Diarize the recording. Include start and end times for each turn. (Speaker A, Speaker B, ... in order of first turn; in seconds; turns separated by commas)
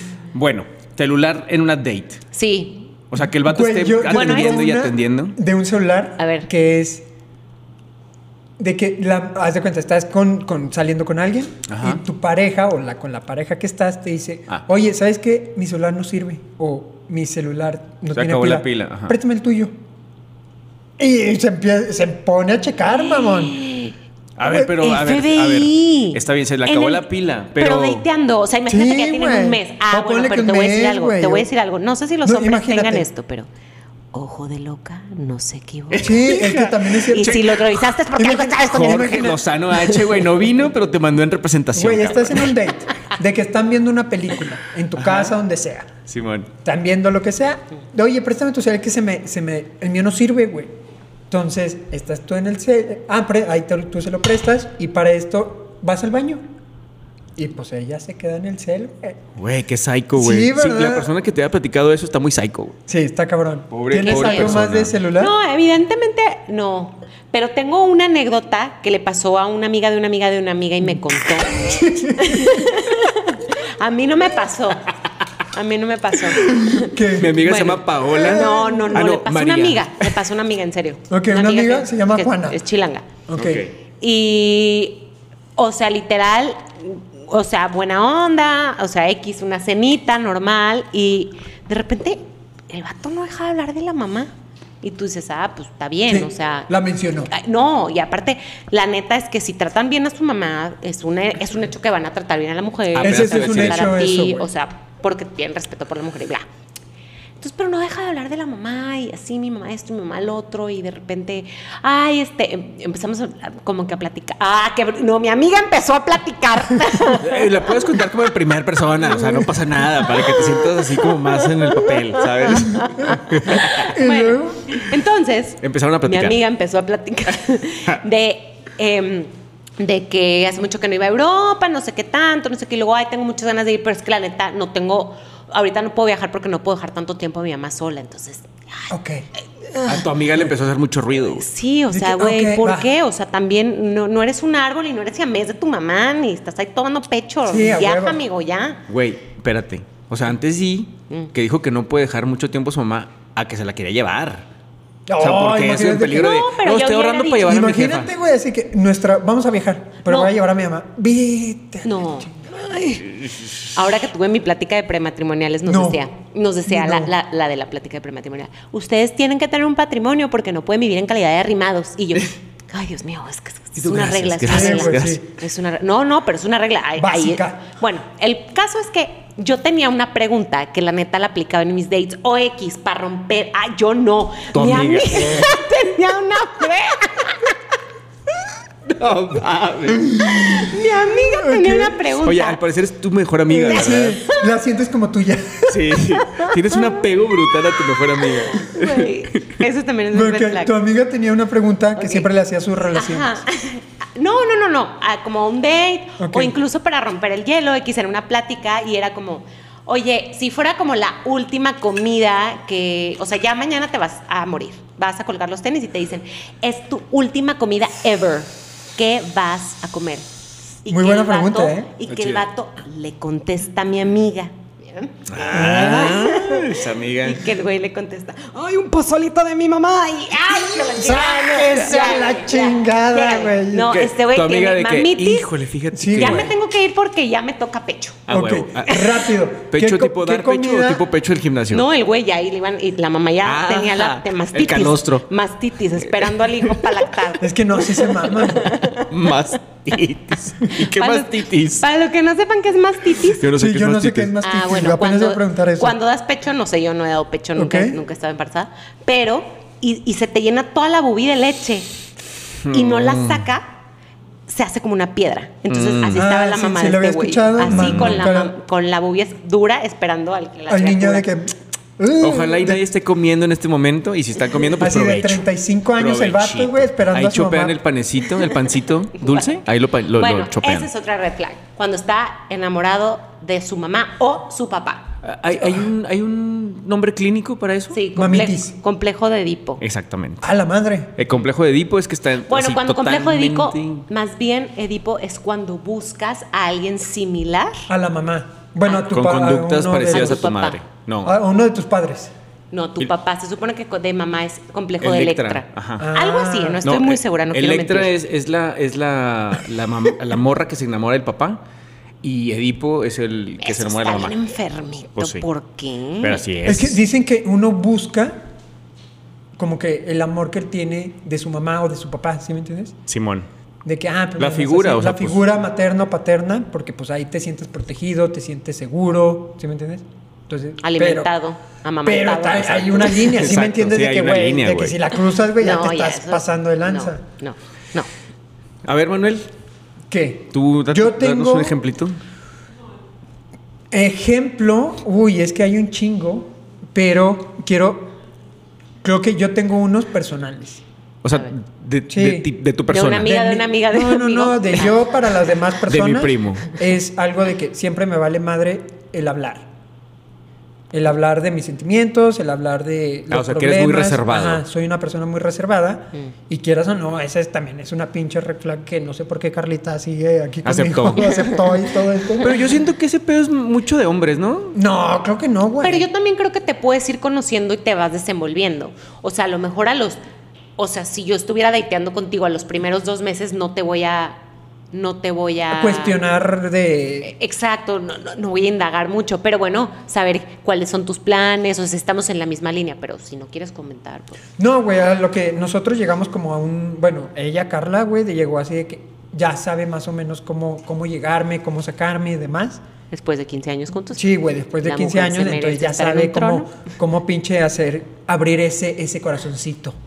Speaker A: 0.3-2.2, Speaker B: 2.3-2.9, Speaker A: 3.1-5.3, Speaker C: 3.4-7.0, Speaker B: 4.1-4.7, Speaker B: 6.2-6.5, Speaker C: 8.6-19.7, Speaker A: 11.7-12.0, Speaker A: 18.1-19.1, Speaker C: 21.0-23.6, Speaker B: 23.0-23.9, Speaker A: 24.4-28.0, Speaker B: 24.8-33.5, Speaker C: 28.7-31.5, Speaker C: 32.2-33.1, Speaker B: 34.1-36.3, Speaker A: 35.9-37.9, Speaker C: 36.0-37.5, Speaker B: 37.0-39.4, Speaker C: 38.1-39.4, Speaker A: 38.6-42.5, Speaker C: 41.7-45.9, Speaker A: 45.0-45.3, Speaker A: 46.1-46.5, Speaker C: 46.6-50.8, Speaker C: 51.3-56.4, Speaker C: 57.4-59.2, Speaker A: 59.4-62.8, Speaker C: 60.1-61.1, Speaker C: 62.9-65.3, Speaker A: 63.7-65.0, Speaker B: 64.0-64.6, Speaker B: 65.2-83.1, Speaker C: 71.6-72.7, Speaker C: 76.4-77.5, Speaker A: 77.1-80.0, Speaker C: 78.1-79.0, Speaker C: 81.1-82.6, Speaker C: 83.3-83.6, Speaker A: 83.3-83.7, Speaker B: 84.0-94.3, Speaker B: 94.8-96.7, Speaker C: 96.1-97.3, Speaker B: 97.3-106.4, Speaker A: 102.9-104.0, Speaker C: 103.0-104.5, Speaker B: 107.4-117.9, Speaker A: 117.1-123.8, Speaker B: 120.2-138.9, Speaker C: 123.8-124.8, Speaker A: 125.6-126.4, Speaker C: 138.9-139.2, Speaker A: 139.8-141.5, Speaker B: 141.3-148.8, Speaker C: 141.9-142.9, Speaker C: 147.4-148.2, Speaker A: 148.9-154.5, Speaker C: 155.1-156.3, Speaker A: 155.2-158.1, Speaker B: 156.1-157.6, Speaker C: 157.4-162.5, Speaker B: 160.1-160.3, Speaker B: 161.8-163.2, Speaker B: 163.7-187.5, Speaker C: 165.7-166.0, Speaker C: 166.7-167.1, Speaker A: 173.8-175.2, Speaker C: 174.4-175.3, Speaker C: 176.9-177.7, Speaker A: 184.5-185.5, Speaker A: 188.9-190.2, Speaker C: 190.0-192.0, Speaker B: 190.3-192.6, Speaker A: 192.2-194.2, Speaker C: 193.5-196.0, Speaker B: 193.7-194.5, Speaker A: 195.7-199.6, Speaker B: 196.3-196.8, Speaker B: 198.5-200.7, Speaker C: 200.1-203.4, Speaker B: 202.0-202.3, Speaker B: 202.9-220.2, Speaker C: 206.2-206.6, Speaker B: 220.8-235.5, Speaker C: 220.9-221.9, Speaker A: 222.1-222.4, Speaker A: 225.3-227.5, Speaker C: 225.5-226.3, Speaker C: 230.7-234.0, Speaker A: 233.9-236.5, Speaker C: 235.9-236.5, Speaker B: 236.1-238.2, Speaker A: 238.3-239.2, Speaker C: 238.3-241.0, Speaker A: 239.7-241.8, Speaker B: 241.7-249.1, Speaker A: 243.4-245.2, Speaker C: 247.4-248.8, Speaker A: 249.1-251.8, Speaker B: 250.7-253.5, Speaker A: 253.3-254.3, Speaker C: 253.5-256.0, Speaker B: 254.4-261.9, Speaker C: 257.5-258.0, Speaker A: 262.6-263.4, Speaker B: 262.7-263.8, Speaker B: 264.5-271.2, Speaker A: 265.7-266.2, Speaker C: 266.1-268.5, Speaker A: 267.6-268.2, Speaker C: 270.7-272.8, Speaker A: 272.2-275.4, Speaker C: 274.8-277.8, Speaker A: 276.0-280.9, Speaker B: 279.2-279.5, Speaker B: 280.1-285.1, Speaker A: 285.2-288.0, Speaker B: 287.9-289.8, Speaker C: 288.1-288.7, Speaker A: 289.8-290.5, Speaker C: 290.4-291.1, Speaker A: 291.2-294.1, Speaker B: 292.5-297.9, Speaker C: 297.9-300.5, Speaker A: 298.9-301.3, Speaker B: 300.1-300.8, Speaker C: 301.2-302.3, Speaker B: 302.7-308.1, Speaker A: 305.0-306.1, Speaker C: 306.0-306.9, Speaker A: 306.8-311.6, Speaker A: 312.2-314.4, Speaker B: 313.6-316.4, Speaker A: 315.1-315.4, Speaker A: 316.2-317.0, Speaker C: 316.6-318.4, Speaker C: 319.6-323.0, Speaker A: 323.1-323.5, Speaker C: 323.8-331.3, Speaker A: 324.4-325.5, Speaker B: 330.8-333.3, Speaker C: 332.0-337.2, Speaker A: 333.3-335.0, Speaker B: 335.6-338.1, Speaker A: 338.8-339.5, Speaker C: 340.1-341.8, Speaker A: 340.5-342.2, Speaker C: 343.9-348.1, Speaker C: 349.0-350.8, Speaker A: 351.2-353.3, Speaker C: 352.1-352.5, Speaker B: 352.9-355.0, Speaker C: 353.2-359.7, Speaker A: 355.9-356.7, Speaker C: 360.9-372.6, Speaker A: 363.3-364.6, Speaker A: 370.6-371.5, Speaker A: 372.4-374.8, Speaker C: 374.7-376.1, Speaker B: 375.8-380.2, Speaker B: 380.8-384.4, Speaker B: 384.9-386.2, Speaker C: 385.7-387.3, Speaker B: 387.2-394.4, Speaker C: 394.6-402.8, Speaker B: 403.1-406.7, Speaker C: 404.1-409.9